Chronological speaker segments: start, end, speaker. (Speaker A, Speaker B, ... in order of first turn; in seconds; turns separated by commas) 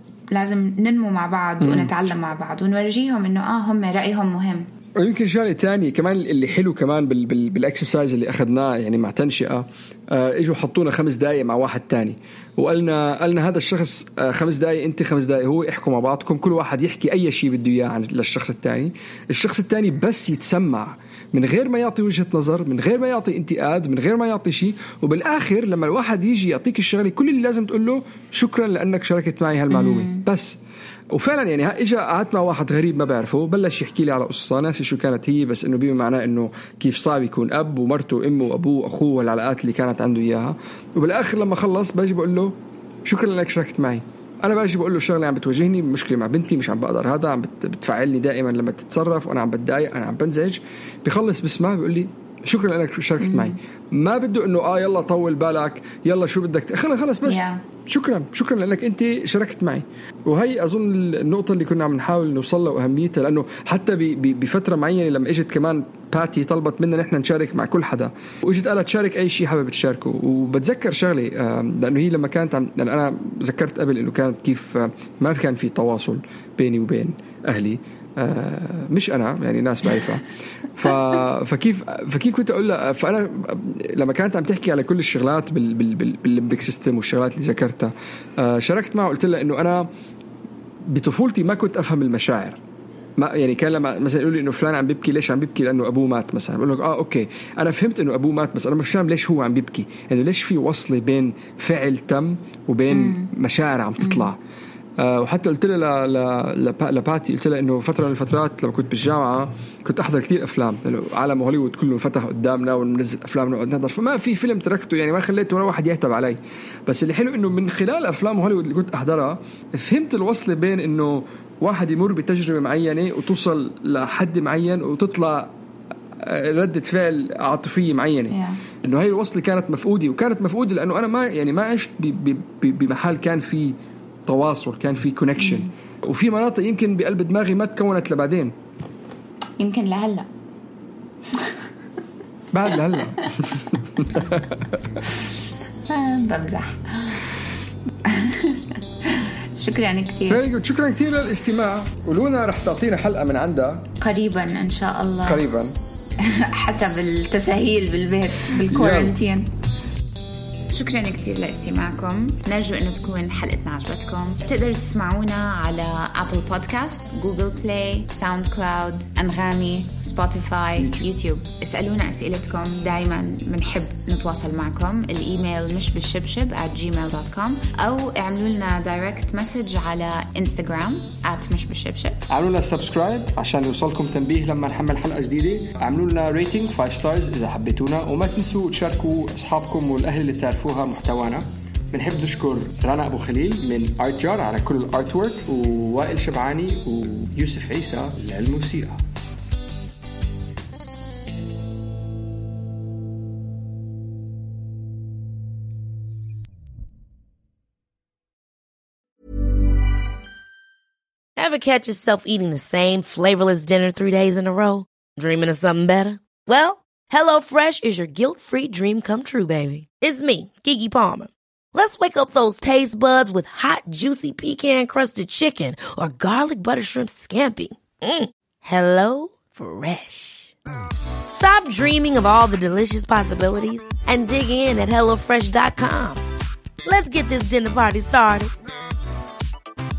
Speaker A: 0.3-4.7, Speaker B: 1.6-1.9, Speaker B: 5.0-30.6, Speaker A: 29.7-30.2, Speaker B: 31.1-89.9, Speaker A: 53.2-53.6, Speaker A: 57.2-57.6, Speaker B: 90.9-92.6, Speaker B: 93.2-104.4, Speaker A: 102.9-103.3, Speaker A: 104.0-104.3, Speaker B: 105.0-125.5, Speaker B: 126.2-133.7, Speaker A: 128.3-128.6, Speaker B: 134.2-138.5, Speaker A: 135.4-135.7, Speaker A: 139.6-140.3, Speaker B: 142.5-145.0, Speaker A: 145.9-147.2, Speaker A: 148.0-150.4, Speaker B: 150.3-153.9, Speaker A: 154.0-155.4, Speaker B: 155.2-155.7, Speaker A: 156.2-159.5, Speaker B: 158.6-159.2, Speaker A: 160.7-182.2, Speaker B: 170.8-171.0, Speaker B: 182.3-199.0, Speaker C: 211.4-230.5, Speaker C: 231.3-236.2, Speaker C: 236.8-238.5